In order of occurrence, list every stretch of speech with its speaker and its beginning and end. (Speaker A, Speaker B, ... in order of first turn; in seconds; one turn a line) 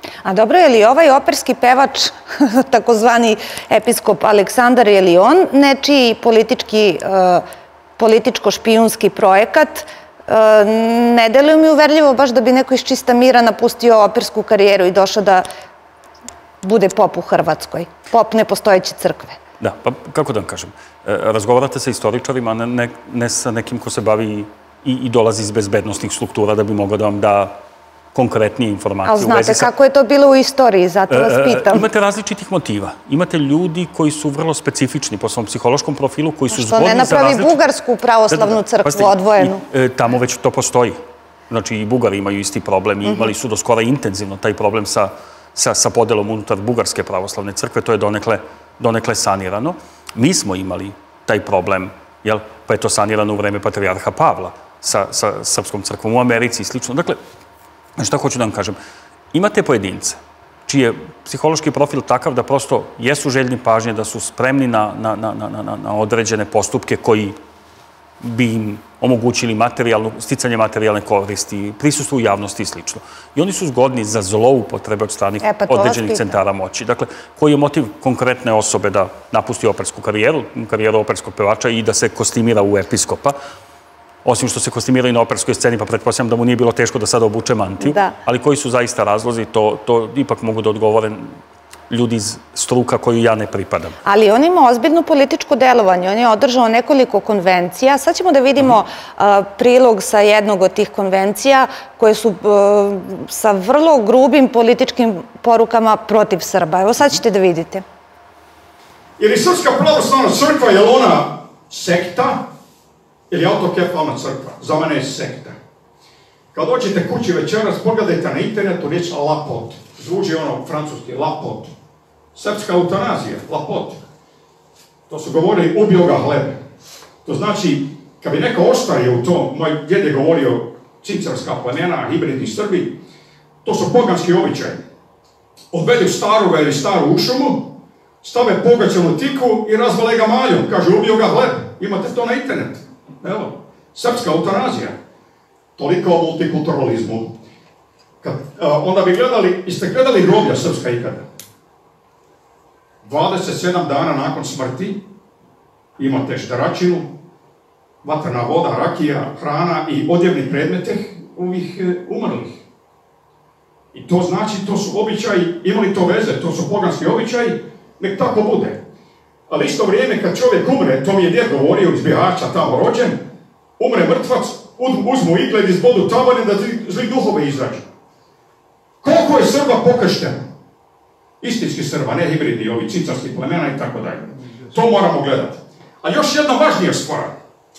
Speaker A: 0.2-7.4
Speaker A: 8.0-15.5
Speaker A: 16.6-19.4
Speaker B: 19.6-27.6
Speaker B: 28.1-29.7
Speaker A: 29.1-31.9
Speaker B: 31.1-37.6
Speaker A: 36.5-39.6
Speaker B: 38.3-41.0
Speaker B: 41.5-57.2
Speaker B: 58.0-58.8
Speaker B: 59.3-67.4
Speaker B: 68.2-83.4
Speaker A: 75.4-76.4
Speaker B: 84.2-91.3
Speaker A: 87.8-88.1
Speaker B: 91.9-94.0
Speaker A: 94.0-107.8
Speaker C: 109.2-112.4
Speaker C: 113.3-115.6
Speaker C: 116.5-121.7
Speaker C: 122.3-124.0
Speaker C: 125.1-126.6
Speaker C: 127.2-133.0
Speaker C: 133.6-134.8
Speaker C: 135.7-137.7
Speaker C: 138.2-144.9
Speaker C: 145.8-147.3
Speaker C: 148.2-151.2
Speaker C: 153.0-155.0
Speaker C: 156.0-157.1
Speaker C: 158.0-162.6
Speaker C: 163.9-168.8
Speaker C: 169.5-173.2
Speaker C: 173.8-177.9
Speaker C: 179.0-180.5
Speaker C: 181.4-187.3